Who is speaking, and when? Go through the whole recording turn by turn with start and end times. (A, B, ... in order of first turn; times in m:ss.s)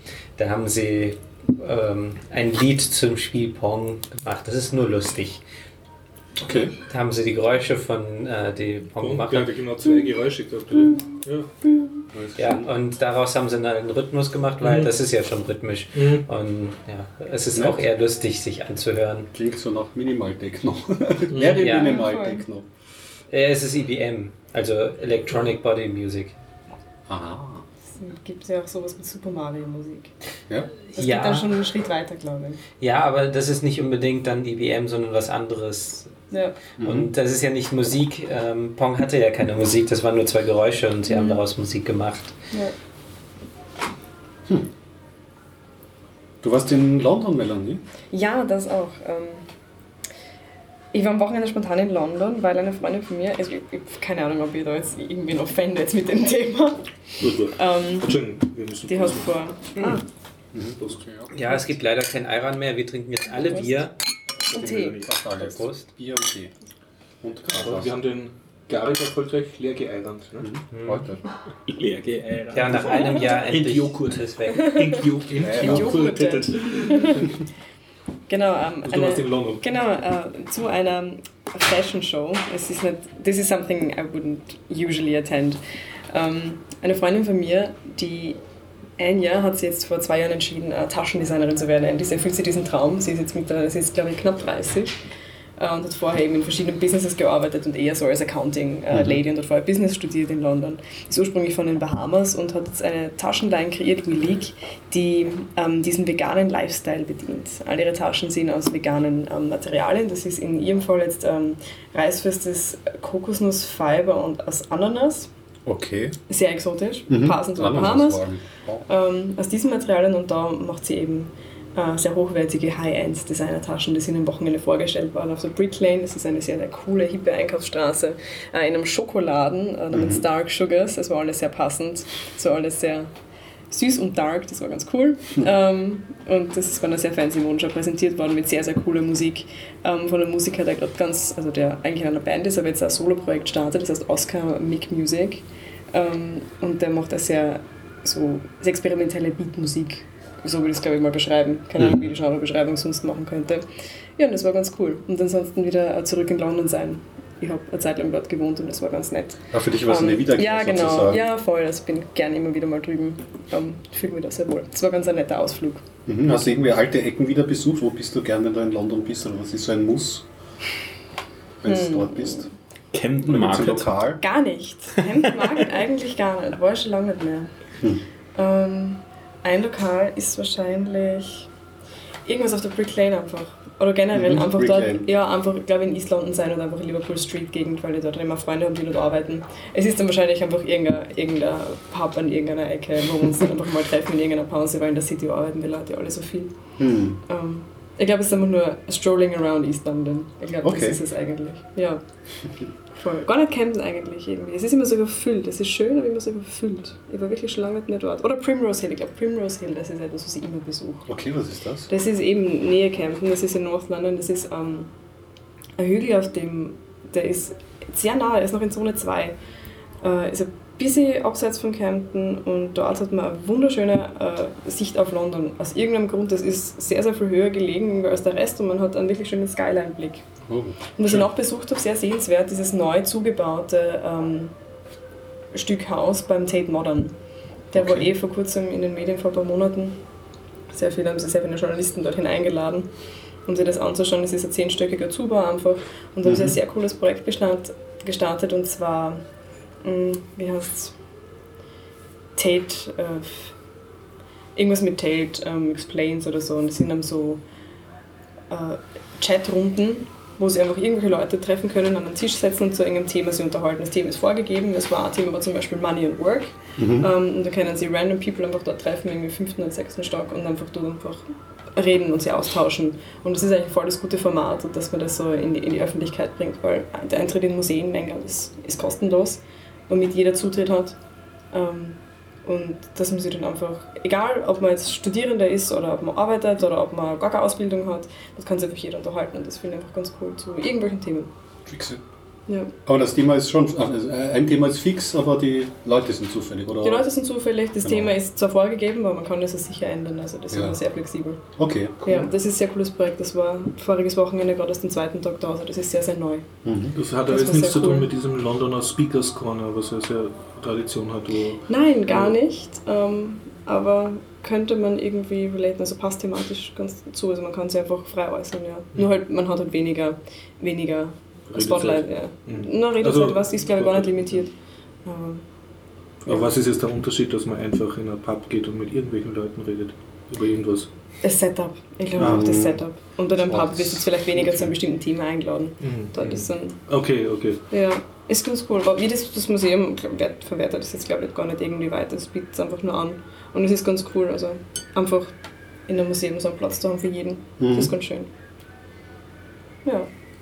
0:00.4-0:05.4 A
0:06.4-0:06.7 B
0:06.9-0:09.5 A
0:09.0-0:11.5 C
0:12.1-0:12.7 B
0:12.4-0:19.3 A
0:14.6-0:14.9 C
0:16.0-0:16.2 C
0:19.3-0:22.7 B
0:21.3-0:21.7 C
0:21.6-0:22.1 A
0:21.6-0:22.4 D
0:23.3-0:26.4 A
0:27.1-0:27.6 B
0:28.0-0:30.1 D
0:30.9-0:31.6 A
0:31.0-0:32.6 D
0:32.8-0:36.2 A
0:36.3-0:36.6 D
0:36.8-0:42.4 A
0:36.8-0:37.1 B
0:41.1-0:41.4 D
0:46.4-0:47.8 B
0:48.1-0:49.4 D
0:50.9-0:58.2 D
0:57.2-0:59.9 C
0:58.9-1:00.0 D
1:00.5-1:01.3 B
1:01.3-1:03.9 A
1:04.5-1:05.7 D
1:04.5-1:05.1 C
1:04.5-1:06.5 B
1:07.2-1:07.9 B
1:07.5-1:10.5 C
1:10.4-1:11.2 B
1:10.7-1:11.1 A
1:11.7-1:12.5 E
1:12.2-1:17.4 C
1:12.5-1:14.8 A
1:14.5-1:14.9 D
1:15.4-1:16.1 B
1:15.6-1:17.3 D
1:18.3-1:25.6 D
1:18.8-1:19.6 C
1:26.1-1:28.4 D
1:29.0-1:35.0 D
1:35.6-1:55.3 D
1:38.9-1:39.2 B
1:55.7-1:56.2 B
1:56.3-1:58.2 D
1:57.1-1:58.8 B
1:58.9-2:13.1 D
2:09.9-2:10.2 B
2:13.7-2:33.6 D
2:31.8-2:32.0 B
2:34.2-2:45.8 D
2:39.5-2:41.2 B
2:46.1-2:50.2 B
2:51.6-2:52.5 B
2:51.7-2:52.5 D
2:52.9-2:54.0 E
2:53.2-2:54.2 B
2:54.2-2:57.5 D
2:58.4-3:01.5 D
3:02.2-3:16.5 D
3:04.1-3:05.1 B
3:16.8-3:17.2 B
3:17.3-3:22.0 D
3:20.6-3:21.0 B
3:22.9-3:31.1 D
3:31.1-3:31.9 B
3:31.9-3:34.9 D
3:35.8-3:39.4 D
3:40.0-3:50.2 D
3:50.5-3:51.3 B
3:51.0-3:54.5 D
3:55.5-3:57.1 D
3:57.7-4:00.0 D
3:57.8-3:58.1 B
4:00.7-4:02.9 D
4:03.4-4:09.2 D
4:06.2-4:06.6 B
4:09.8-4:11.0 D
4:12.4-4:13.5 D
4:14.6-4:17.4 D
4:18.5-4:41.0 D
4:26.8-4:27.1 B
4:41.5-4:51.3 D
4:51.7-4:52.0 B
4:52.8-4:57.1 B
4:56.8-5:01.4 D
4:57.8-4:58.1 B
5:00.5-5:00.8 B
5:01.6-5:02.3 B
5:02.1-5:06.5 D
5:06.6-5:07.0 B
5:07.0-5:12.3 C
5:07.3-5:08.1 D
5:11.7-5:24.5 D
5:21.5-5:24.4 C
5:25.0-5:25.4 D
5:26.2-5:30.9 C
5:31.2-5:36.8 D
5:32.2-5:32.6 C
5:32.2-5:32.8 B
5:33.4-5:34.7 B
5:35.8-5:37.6 C
5:37.7-5:45.4 D
5:45.9-5:48.3 D
5:47.6-5:48.0 B